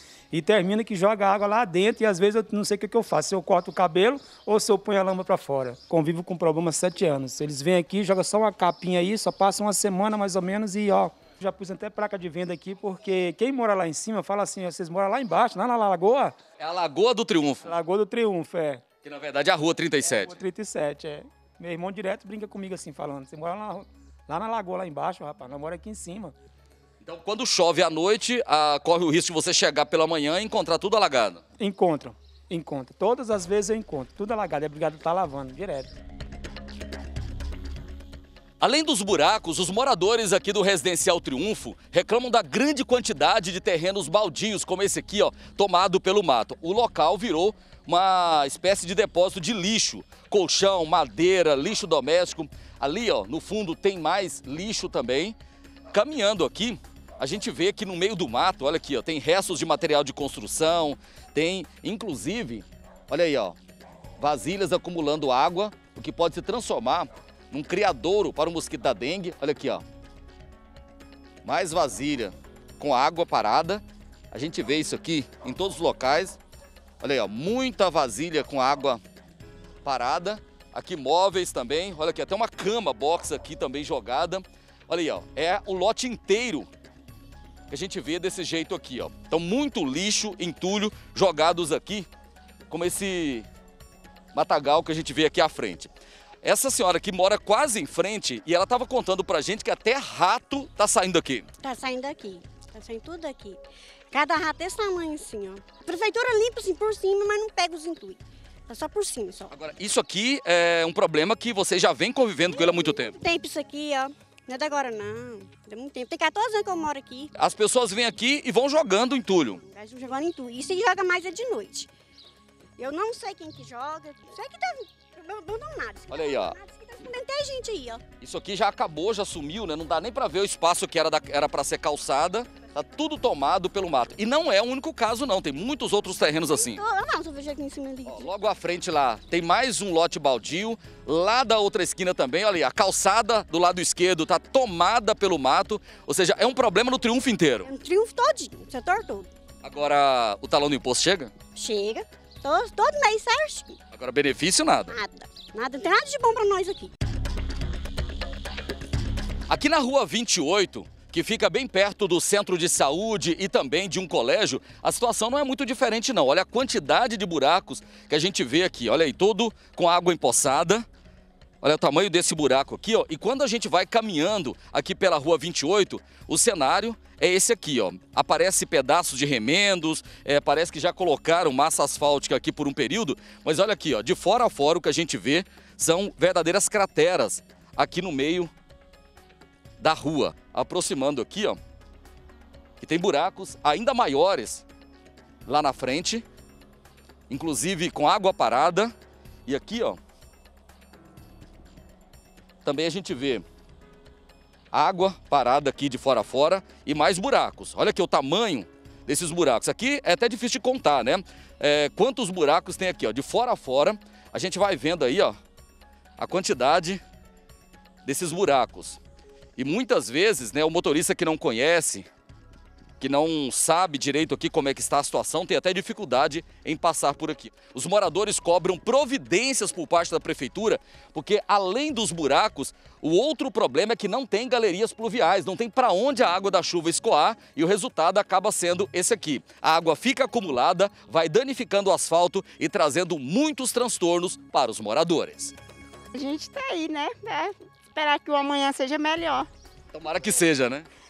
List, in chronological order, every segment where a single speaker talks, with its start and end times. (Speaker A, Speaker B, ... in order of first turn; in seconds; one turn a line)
Speaker A: 0.3-16.3
Speaker B: 16.6-17.7
Speaker A: 17.6-18.8
Speaker B: 19.0-20.4
Speaker A: 20.0-26.4
Speaker B: 27.0-31.4
Speaker A: 31.6-36.0
Speaker B: 38.6-55.4
Speaker B: 55.9-63.6
Speaker B: 64.2-69.8
Speaker B: 71.4-76.4
Speaker B: 77.0-79.0
Speaker B: 79.8-86.7
Speaker B: 87.7-92.1
Speaker B: 92.7-93.5
Speaker B: 94.3-95.9
Speaker B: 96.4-101.5
Speaker C: 101.6-103.6
Speaker C: 104.1-109.5
Speaker B: 109.5-113.2
Speaker C: 112.5-117.3
Speaker B: 117.4-119.6
Speaker C: 119.6-121.9
Speaker C: 122.8-128.0
Speaker B: 126.1-126.6
Speaker B: 128.2-136.8
Speaker C: 136.5-138.3
Speaker B: 138.1-147.7
Speaker C: 147.7-149.3
Speaker B: 149.6-151.3
Speaker C: 151.6-153.8
Speaker B: 153.9-155.0
Speaker C: 154.9-156.9
Speaker B: 159.5-170.8
Speaker B: 171.6-188.5
Speaker B: 189.8-191.6
Speaker B: 192.8-194.7
Speaker B: 195.5-196.2
Speaker B: 197.3-198.9
Speaker B: 199.5-200.0
Speaker B: 202.7-203.4
Speaker B: 204.7-215.4
Speaker B: 216.2-217.0
Speaker B: 218.1-219.0
Speaker B: 219.6-222.1
Speaker B: 223.0-245.5
Speaker D: 246.1-249.5
Speaker B: 249.9-250.9